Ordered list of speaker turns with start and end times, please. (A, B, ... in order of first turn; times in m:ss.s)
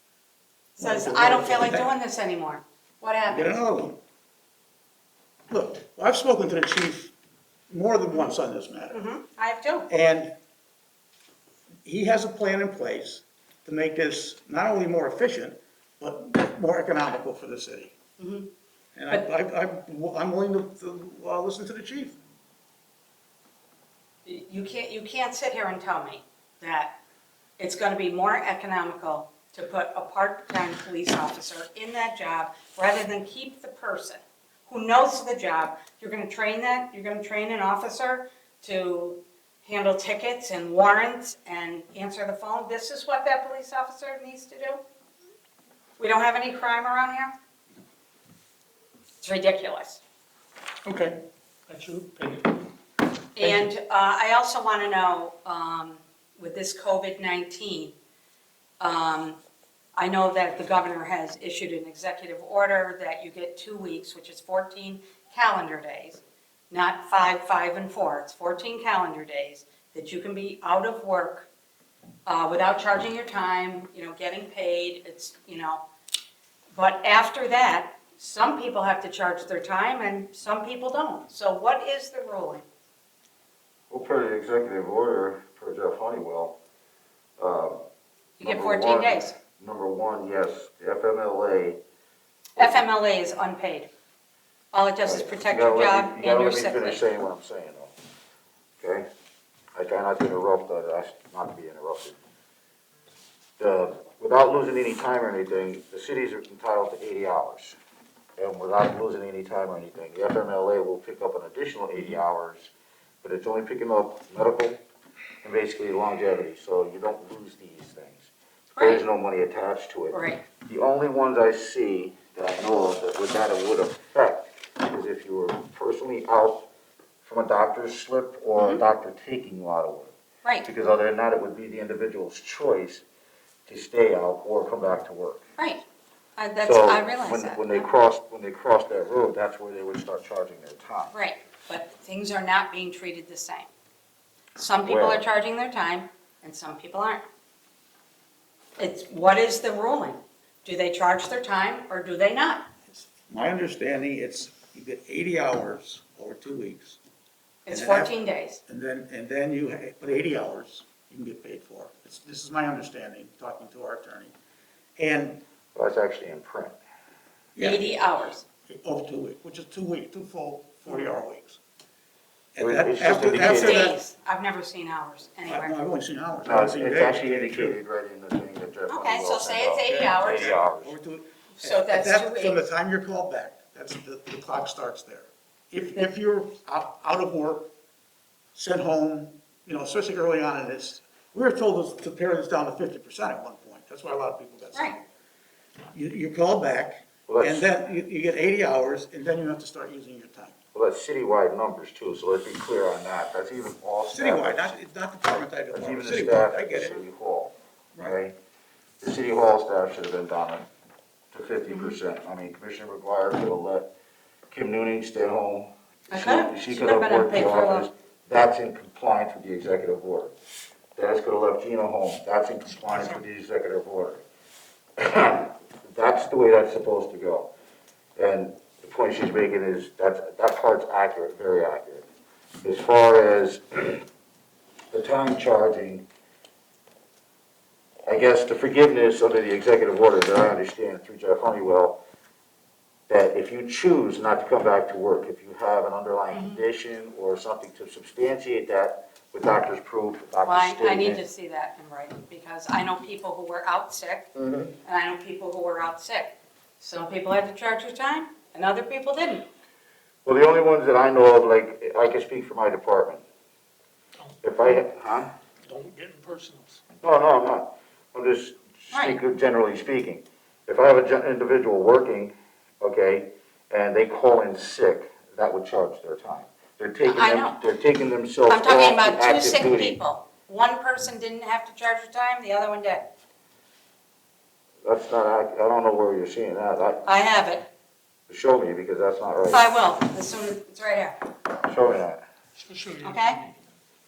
0:00.8-0:03.6 A
0:00.8-0:01.9 B
0:03.3-0:04.0 B
0:05.5-0:07.1 B
0:07.7-0:09.0 B
0:08.9-0:09.9 A
0:09.9-0:10.3 B
0:11.8-0:17.9 B
0:18.2-0:18.5 A
0:18.9-0:22.2 B
0:24.2-0:27.0 A
0:27.6-0:44.8 A
0:46.0-0:47.3 A
0:49.2-0:50.0 A
0:50.8-0:52.7 C
0:53.4-0:57.9 A
0:58.8-0:59.4 A
1:00.0-1:11.5 A
1:12.2-1:15.8 A
1:16.7-1:22.6 A
1:23.9-1:26.6 D
1:27.4-1:27.8 D
1:28.4-1:29.3 A
1:28.4-1:31.8 D
1:32.6-1:33.9 A
1:34.7-1:37.0 A
1:35.0-1:37.9 D
1:38.8-1:39.0 D
1:39.7-1:42.2 D
1:43.6-1:47.8 D
1:48.4-1:54.8 D
1:55.4-2:06.7 D
1:58.7-1:59.0 A
2:00.1-2:00.4 A
2:07.2-2:13.0 D
2:08.5-2:08.8 A
2:13.7-2:15.4 D
2:15.6-2:15.8 A
2:16.4-2:17.9 A
2:16.6-2:21.1 D
2:21.1-2:23.7 A
2:24.6-2:27.2 A
2:24.8-2:25.2 D
2:28.8-2:32.7 A
2:33.2-2:37.0 B
2:37.6-2:38.6 A
2:37.7-2:38.1 B
2:38.7-2:44.3 B
2:45.0-2:45.4 B
2:45.7-2:46.8 D
2:47.5-2:47.9 B
2:47.6-2:48.4 A
2:48.7-2:51.6 B
2:52.5-2:54.0 B
2:52.6-2:53.9 D
2:53.3-2:55.7 A
2:55.4-2:57.8 B
2:56.4-3:00.9 D
2:58.9-3:00.6 A
2:59.8-3:07.7 B
3:01.6-3:02.7 A
3:08.5-3:15.0 B
3:15.9-3:20.5 B
3:17.3-3:17.7 D
3:20.7-3:24.7 D
3:24.1-3:27.0 B
3:25.7-3:28.4 D
3:29.0-3:30.7 D
3:31.3-3:33.9 D
3:31.7-3:32.0 A
3:34.5-3:40.3 D
3:36.1-3:37.9 A
3:40.9-3:44.2 D
3:45.0-3:47.5 D
3:48.2-3:52.0 D
3:52.6-3:54.0 D
3:54.9-3:56.0 D
3:58.1-4:02.0 D
4:03.1-4:11.2 D
4:06.3-4:06.6 A
4:10.4-4:14.3 A
4:14.4-4:14.8 D
4:14.8-4:19.4 A
4:20.2-4:23.2 D
4:24.4-4:25.3 D
4:25.6-4:26.8 C
4:27.0-4:40.0 D
4:28.9-4:29.2 A
4:37.0-4:37.6 A
4:38.5-4:43.1 A
4:44.8-4:47.2 D
4:47.0-4:47.7 A
4:48.3-4:49.7 D
4:49.5-4:51.2 A
4:51.6-4:52.2 D
4:52.6-4:53.5 C
4:53.0-4:53.4 A